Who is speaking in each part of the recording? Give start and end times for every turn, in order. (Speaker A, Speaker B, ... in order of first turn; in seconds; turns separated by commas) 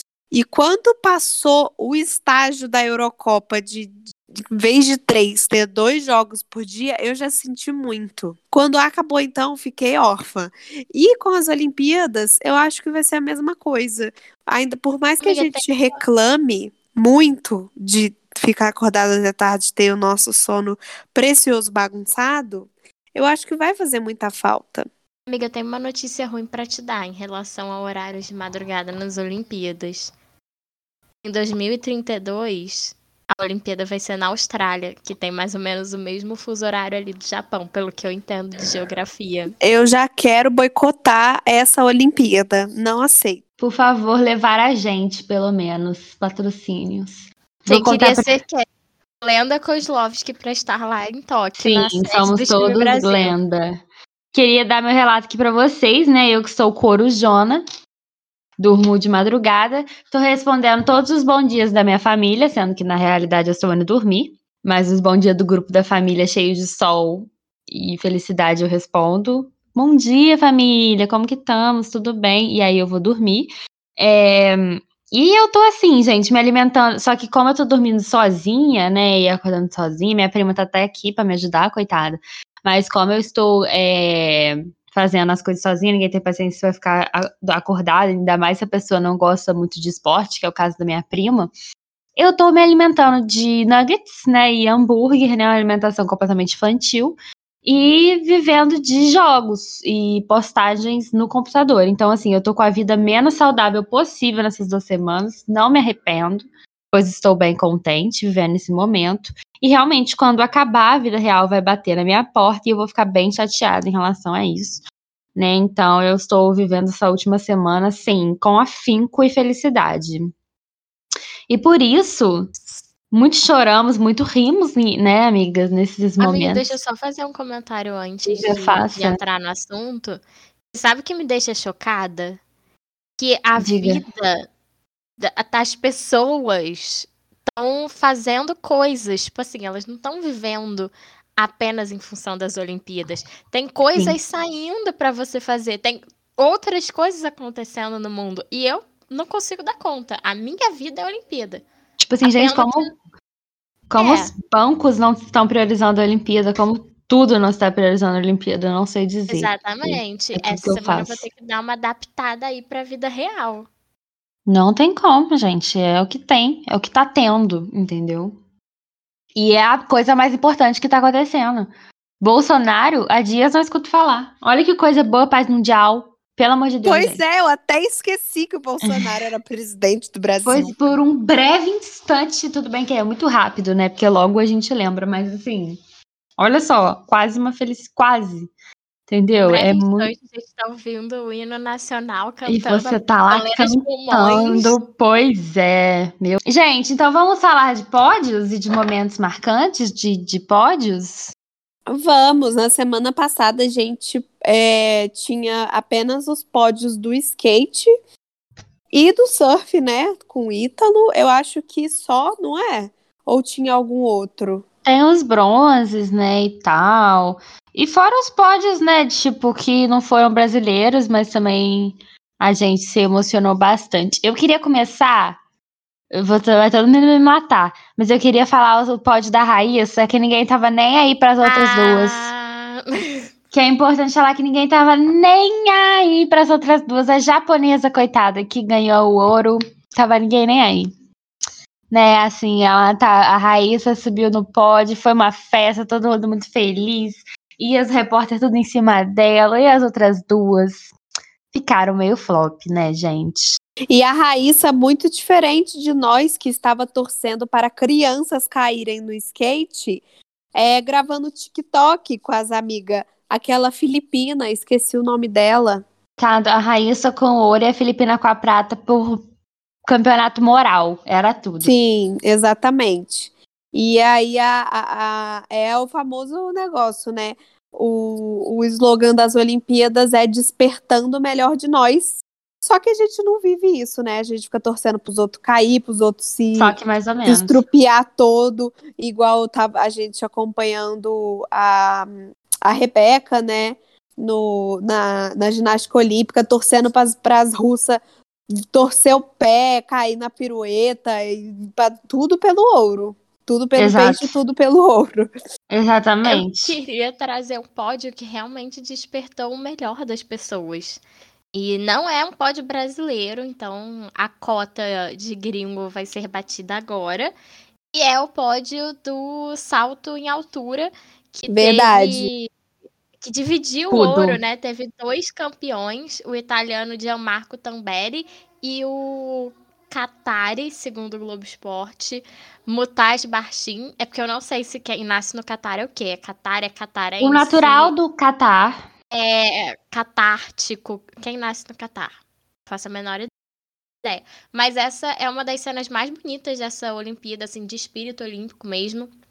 Speaker A: 0.3-24.9, Speaker B: 15.2-16.0, Speaker B: 25.3-30.1, Speaker B: 31.2-39.5, Speaker A: 39.6-43.4, Speaker C: 43.6-48.3, Speaker B: 47.7-48.6, Speaker B: 49.2-53.4, Speaker C: 51.6-53.8, Speaker C: 54.3-57.6, Speaker C: 58.6-91.5, Speaker C: 92.2-114.8, Speaker C: 115.3-120.3, Speaker C: 121.5-122.5, Speaker C: 123.1-126.8, Speaker B: 126.2-130.2, Speaker C: 128.2-129.2, Speaker B: 130.7-132.4, Speaker B: 133.2-134.5, Speaker C: 133.6-134.0, Speaker B: 135.2-151.6, Speaker C: 152.0-152.9, Speaker B: 152.2-152.9, Speaker C: 153.9-161.2, Speaker B: 154.0-154.3, Speaker B: 159.3-163.7, Speaker C: 164.4-168.4, Speaker C: 169.3-177.2, Speaker A: 176.8-180.7, Speaker C: 178.8-179.1, Speaker C: 180.4-185.8, Speaker C: 186.4-188.5, Speaker C: 189.1-190.1, Speaker B: 189.4-194.8, Speaker C: 192.5-201.3, Speaker A: 201.9-207.9, Speaker A: 208.9-214.6, Speaker C: 214.8-225.4, Speaker C: 226.1-232.3, Speaker B: 231.4-233.3, Speaker C: 233.5-240.9, Speaker C: 241.9-250.9, Speaker C: 251.5-253.6, Speaker A: 253.9-260.0, Speaker A: 260.5-265.8, Speaker C: 266.2-269.2, Speaker C: 269.8-271.7, Speaker A: 271.6-286.7, Speaker C: 286.6-287.6, Speaker A: 287.2-298.0, Speaker A: 298.6-305.3, Speaker C: 303.8-304.4, Speaker C: 305.7-306.8, Speaker B: 306.2-311.0, Speaker B: 311.5-317.3, Speaker B: 317.9-322.5, Speaker A: 321.5-322.3, Speaker B: 323.2-337.9, Speaker C: 323.9-324.4, Speaker C: 337.2-338.9, Speaker B: 339.1-342.1, Speaker B: 342.6-343.3, Speaker B: 344.0-349.1